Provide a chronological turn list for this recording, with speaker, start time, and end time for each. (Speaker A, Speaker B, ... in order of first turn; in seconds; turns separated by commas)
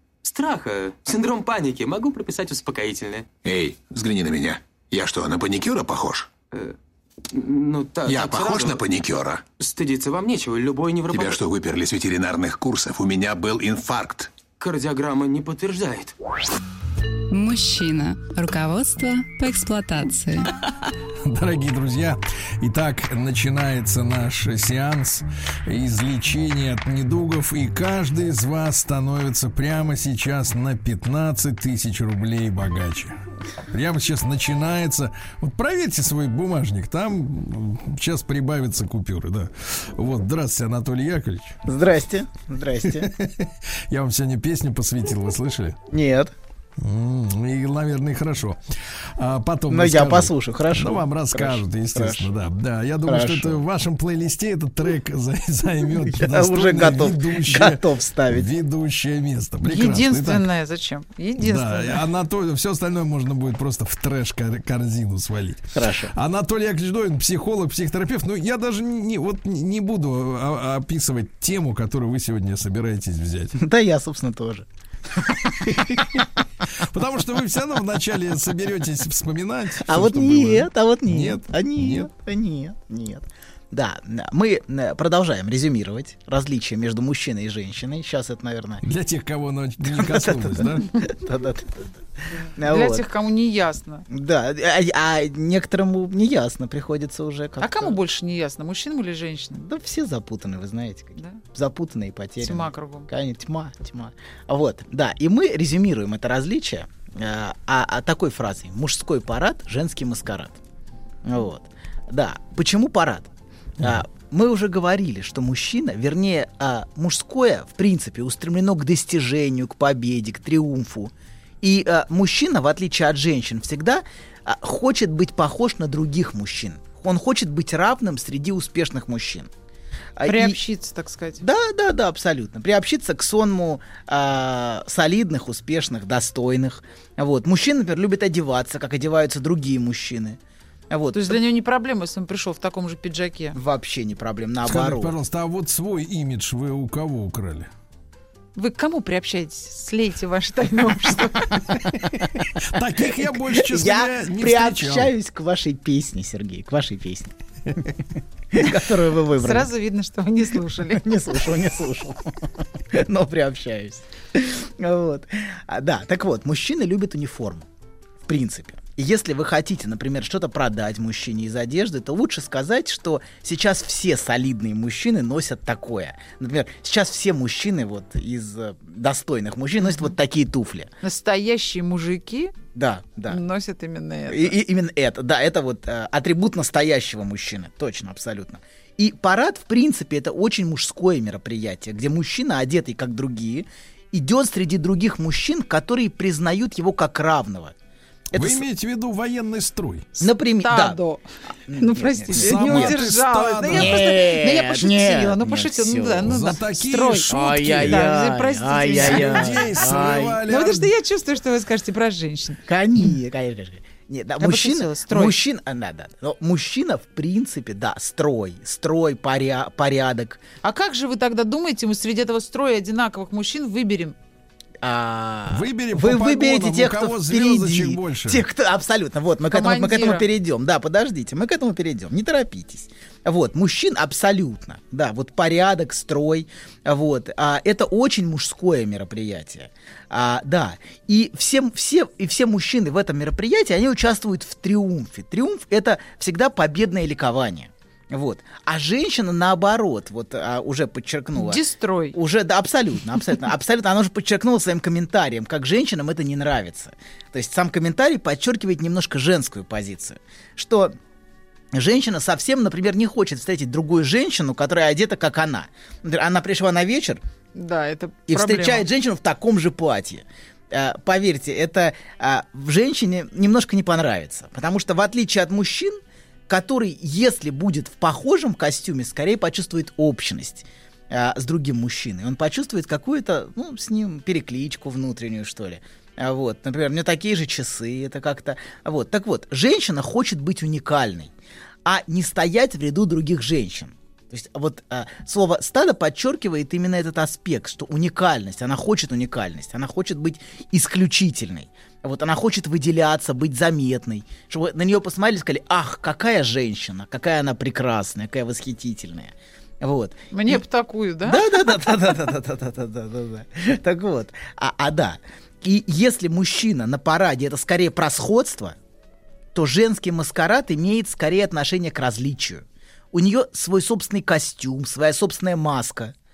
Speaker A: 0.2-3.3, Speaker B: 3.4-6.3, Speaker A: 7.3-8.8, Speaker B: 8.1-9.4, Speaker A: 9.6-11.4, Speaker B: 11.1-14.3, Speaker A: 14.6-16.1, Speaker C: 17.3-20.5, Speaker D: 21.2-33.1, Speaker D: 33.7-41.6, Speaker E: 41.6-43.1, Speaker D: 43.0-45.8, Speaker E: 45.9-46.3, Speaker D: 46.8-48.6, Speaker D: 49.1-60.5, Speaker E: 49.7-52.3, Speaker E: 53.0-53.6, Speaker E: 56.0-58.5, Speaker F: 59.6-62.0, Speaker D: 61.4-73.6, Speaker E: 65.7-66.1, Speaker E: 73.5-76.2, Speaker D: 75.7-76.2, Speaker D: 76.8-82.1, Speaker E: 79.8-88.8, Speaker D: 88.8-90.9, Speaker E: 89.8-91.9, Speaker E: 92.5-93.1, Speaker F: 92.7-94.0, Speaker E: 94.1-98.0, Speaker F: 97.6-99.6, Speaker E: 99.5-110.6, Speaker F: 102.4-103.1, Speaker E: 111.2-129.5, Speaker E: 130.2-130.6, Speaker F: 130.2-131.4, Speaker E: 131.4-140.4, Speaker E: 140.9-141.4, Speaker F: 141.1-143.6, Speaker E: 143.5-145.1, Speaker D: 144.7-147.7, Speaker F: 148.6-151.8, Speaker E: 152.2-157.3, Speaker D: 152.6-155.1, Speaker E: 158.5-159.7, Speaker F: 159.4-161.2, Speaker E: 160.9-167.7, Speaker E: 168.2-180.9, Speaker F: 181.0-182.5, Speaker E: 182.7-183.4, Speaker F: 183.3-184.6, Speaker E: 184.3-197.7, Speaker E: 198.3-198.6, Speaker D: 198.3-200.1, Speaker E: 200.2-201.0, Speaker F: 200.2-201.2, Speaker E: 201.7-203.0, Speaker F: 201.8-207.3, Speaker D: 202.3-204.1, Speaker E: 203.7-206.4, Speaker D: 206.2-208.1, Speaker E: 207.3-210.4, Speaker F: 207.8-209.8, Speaker D: 209.0-210.9, Speaker F: 210.5-212.6, Speaker E: 212.7-220.4, Speaker F: 214.4-215.4, Speaker F: 220.6-224.1, Speaker E: 224.8-260.9, Speaker D: 225.5-228.4, Speaker F: 229.5-230.2, Speaker F: 251.3-252.2, Speaker E: 261.7-267.2, Speaker F: 267.6-268.8, Speaker E: 268.3-291.3, Speaker E: 291.8-310.6, Speaker F: 310.3-311.7, Speaker E: 311.2-318.8, Speaker E: 319.5-326.1